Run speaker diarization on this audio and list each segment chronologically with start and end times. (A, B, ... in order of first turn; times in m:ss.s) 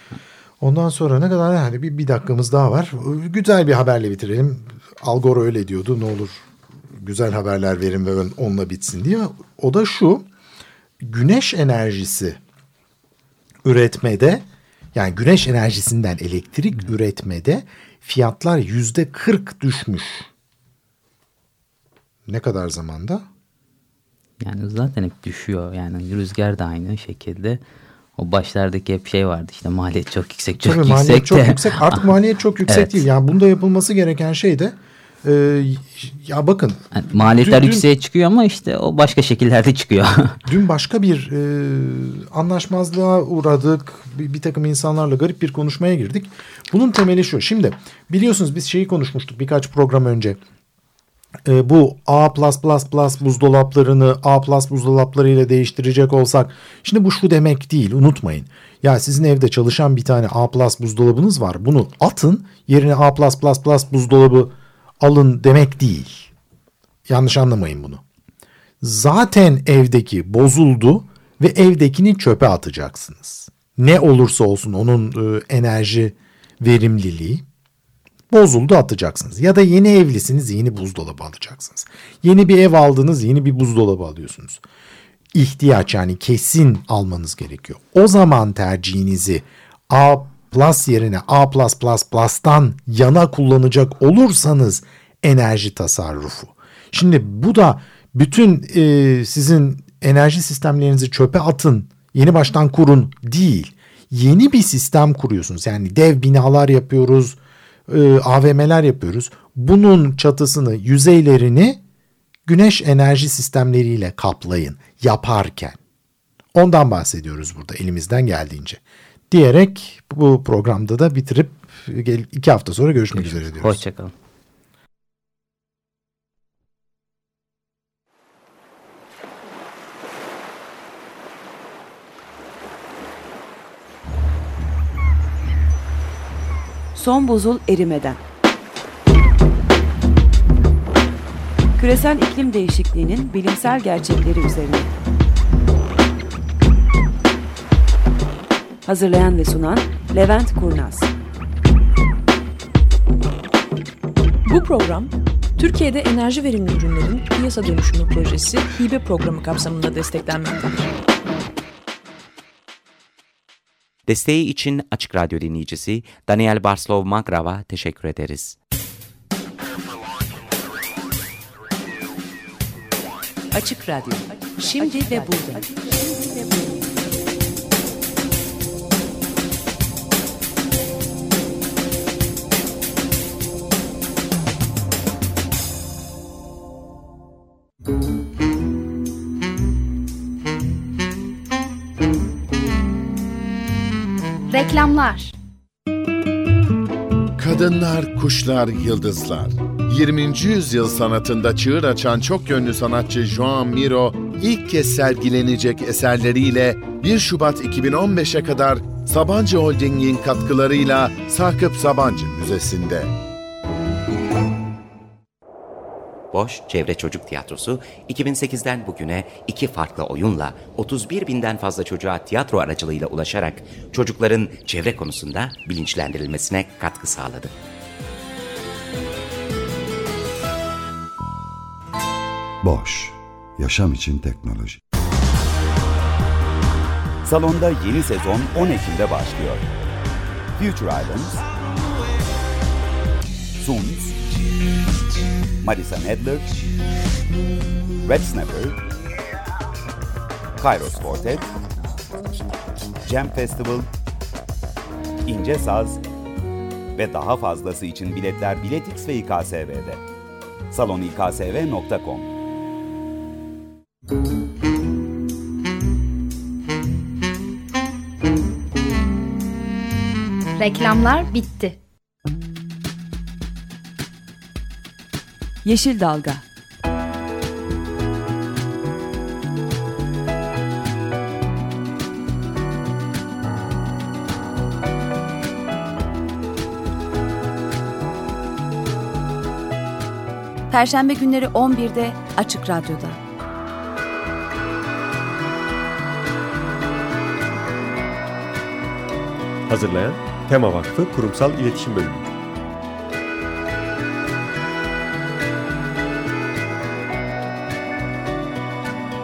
0:00.6-0:10.2 A
0:11.0-0:12.4 A
0:13.6-0:20.3 A
0:22.2-0:23.2 A
0:24.4-0:27.6 B
0:28.2-0:32.0 B
0:30.6-0:37.9 A
0:32.7-0:33.0 B
0:36.9-0:40.4 B
0:40.4-0:50.4 A
0:51.4-1:06.3 A
1:07.1-1:08.0 A
1:08.8-1:17.4 A
1:18.3-1:24.6 A
1:25.3-1:51.8 A
1:52.4-1:55.8 A
1:56.5-2:03.8 A
2:03.1-2:04.1 B
2:16.9-2:18.2 C
2:21.8-2:24.9 C
2:28.8-2:31.1 C
2:34.4-2:40.9 D
2:44.1-2:48.6 E
2:53.5-2:56.8 C
3:14.5-3:15.3 F
3:17.4-3:33.1 G
3:36.3-3:47.5 E
3:52.6-3:54.8 H
3:57.2-3:59.7 I
4:00.6-4:01.4 I
4:03.6-4:04.1 I
4:05.6-4:06.6 I
4:08.0-4:08.8 I
4:10.6-4:11.5 I
4:13.0-4:13.9 I
4:15.2-4:16.0 I
4:16.9-4:20.0 I
4:20.7-4:22.3 I
4:30.6-4:31.8 F
4:35.6-4:36.4 C
4:50.7-4:53.2 C
4:59.7-5:02.3 J